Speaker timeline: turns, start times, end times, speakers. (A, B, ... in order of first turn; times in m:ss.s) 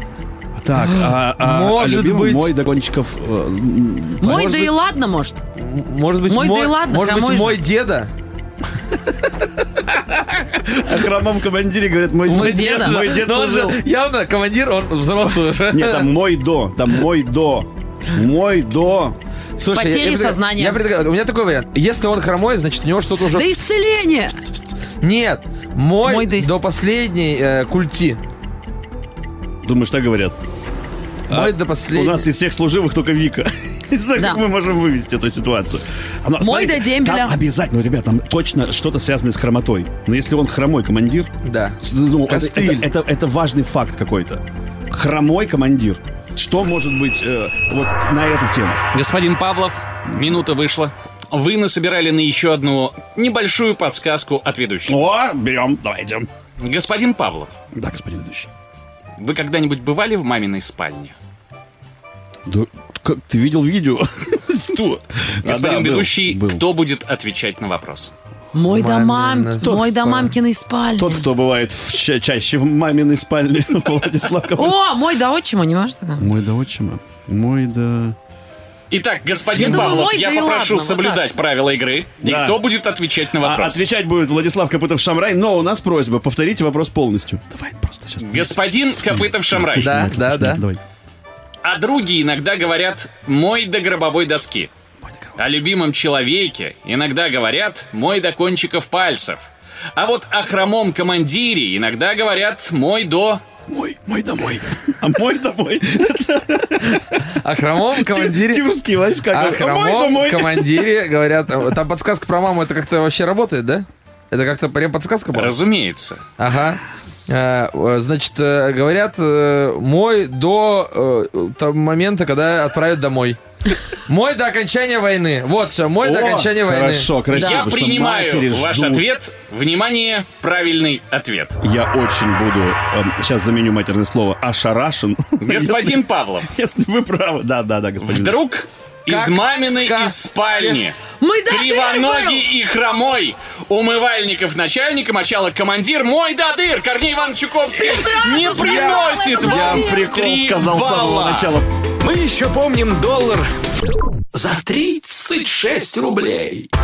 0:00.6-0:04.4 A
0:00.8-0:02.5 B
0:04.2-0:05.4 C
0:04.2-0:04.7 B
0:05.6-0:08.1 B
0:06.3-0:07.6 C
0:10.6-0:13.8 A
0:12.2-0:16.0 B
0:12.3-0:13.0 C
0:15.7-0:19.2 A
0:19.6-0:23.5 B
0:19.7-0:20.8 C
0:23.3-0:24.5 C
0:25.0-0:28.2 B
0:26.0-0:26.5 C
0:29.6-0:30.4 A
0:31.3-0:41.3 A
0:31.3-0:32.3 B
0:34.2-0:34.4 C
0:36.4-0:37.4 C
0:41.4-0:42.8 B
0:41.8-0:48.8 A
0:48.9-0:55.0 D
0:54.9-0:56.3 A
0:56.6-0:57.5 D
0:57.7-0:58.5 A
0:59.2-1:01.2 D
1:02.4-1:06.6 A
1:04.7-1:08.1 D
1:08.5-1:11.2 C
1:08.7-1:10.3 B
1:09.6-1:09.9 A
1:11.0-1:14.8 A
1:14.5-1:16.3 C
1:16.2-1:18.2 A
1:18.9-1:23.8 D
1:19.5-1:21.2 C
1:22.2-1:22.6 A
1:23.4-1:30.8 A
1:28.2-1:30.0 D
1:29.8-1:30.6 B
1:31.6-1:34.7 D
1:35.4-1:43.4 D
1:43.7-1:47.2 A
1:47.4-1:48.6 B
1:47.9-1:50.7 A
1:49.3-1:55.6 B
1:55.3-1:56.2 D
1:56.4-2:03.4 B
2:04.1-2:07.1 B
2:06.0-2:09.1 A
2:07.3-2:11.6 D
2:11.6-2:18.4 A
2:15.4-2:16.5 D
2:18.0-2:31.6 D
2:19.1-2:20.8 B
2:21.2-2:22.5 C
2:27.7-2:30.1 C
2:29.3-2:31.7 A
2:32.0-2:33.5 E
2:34.3-2:36.7 E